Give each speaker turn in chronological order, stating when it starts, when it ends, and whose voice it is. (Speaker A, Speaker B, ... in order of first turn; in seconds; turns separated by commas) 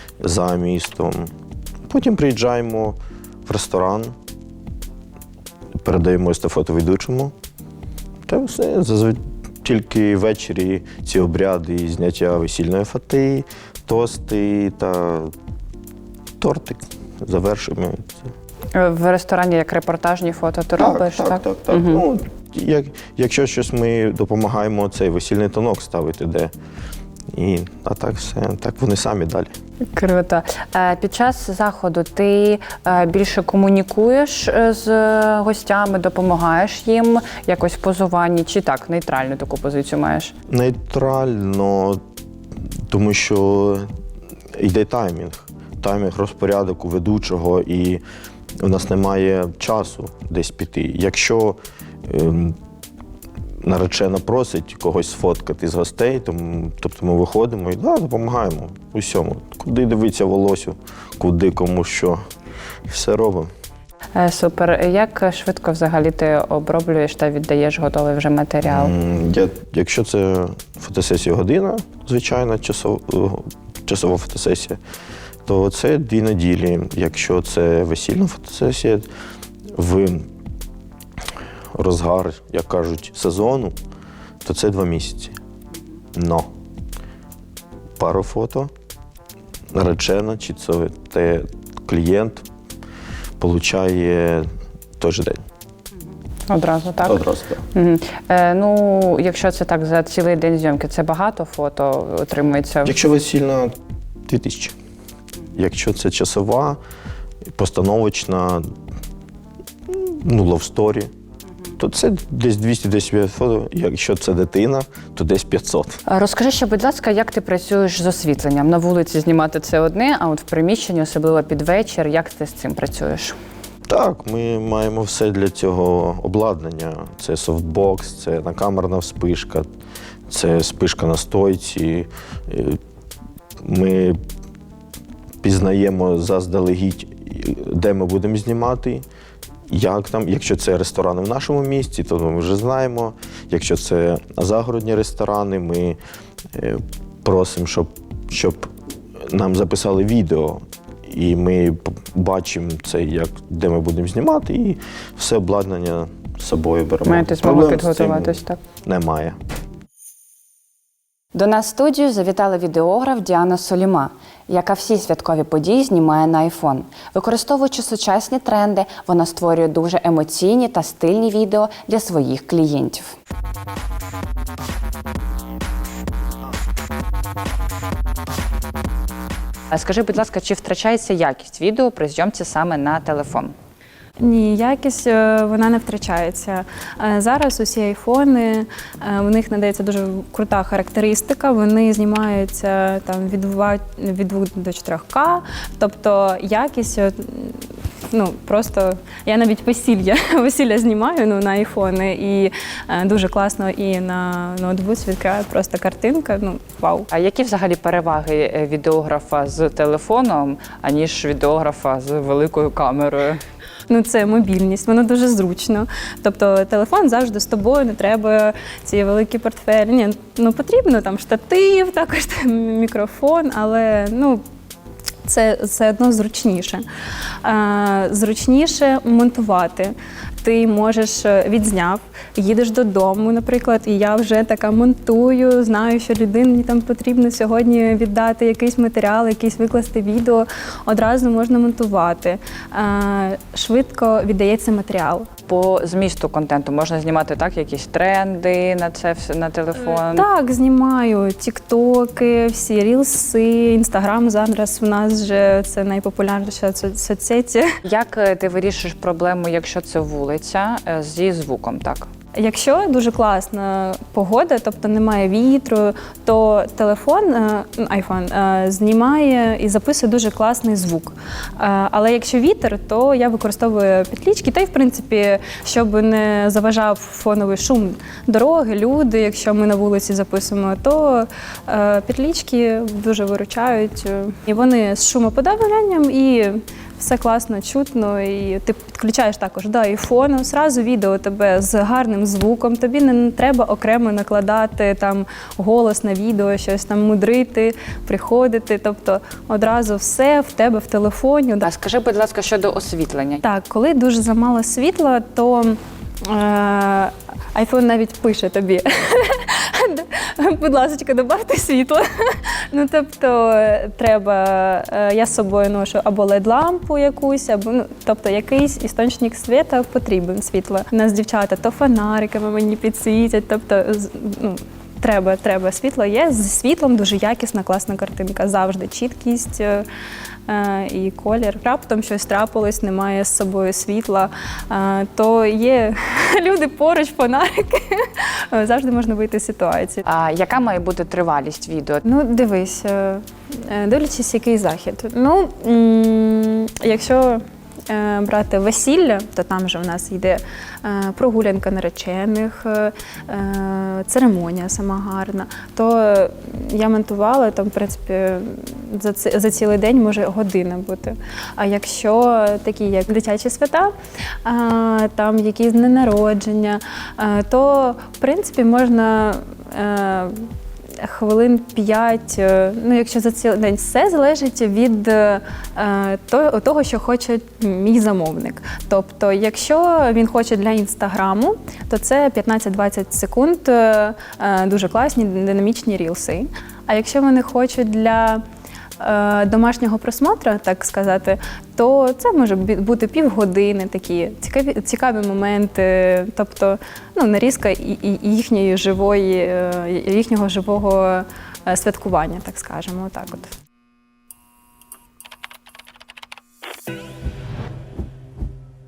Speaker A: 0.2-1.3, Speaker A: 1.9-4.2, Speaker A: 5.8-7.3, Speaker A: 8.3-15.3, Speaker A: 16.4-18.3, Speaker B: 18.8-22.0, Speaker A: 20.8-26.5, Speaker A: 27.3-29.5, Speaker B: 29.9-40.3, Speaker A: 40.5-42.0, Speaker A: 42.9-43.9, Speaker A: 44.5-48.0, Speaker A: 48.6-52.6, Speaker A: 53.6-62.2, Speaker A: 62.9-63.5, Speaker B: 64.2-68.9, Speaker A: 68.6-74.8, Speaker A: 75.5-79.1, Speaker A: 79.7-80.3, Speaker A: 81.8-83.8, Speaker A: 84.4-85.3, Speaker A: 86.1-86.5, Speaker A: 88.0-88.7, Speaker A: 89.7-92.5, Speaker A: 93.4-95.4, Speaker B: 96.5-103.0, Speaker A: 97.0-97.6, Speaker A: 102.8-103.7, Speaker A: 104.3-104.8, Speaker A: 105.5-106.8, Speaker A: 107.5-108.7, Speaker A: 109.9-111.1, Speaker A: 111.8-116.0, Speaker B: 116.1-123.4, Speaker A: 123.9-129.7, Speaker A: 130.3-132.8, Speaker A: 133.6-134.2, Speaker A: 135.4-139.1, Speaker A: 139.7-146.0, Speaker A: 146.5-159.4, Speaker B: 157.0-158.6, Speaker B: 161.3-173.2, Speaker B: 179.7-183.6, Speaker C: 184.2-207.1, Speaker B: 207.1-213.4, Speaker C: 213.9-224.4, Speaker C: 225.3-226.9, Speaker C: 227.4-245.3, Speaker B: 245.5-250.3, Speaker C: 249.8-257.7, Speaker B: 257.9-262.1, Speaker C: 262.4-301.7, Speaker B: 301.6-303.4, Speaker C: 303.4-329.9, Speaker C: 330.5-340.0, Speaker B: 340.1-342.0, Speaker C: 342.1-363.9, Speaker C: 364.4-388.4, Speaker C: 389.0-403.5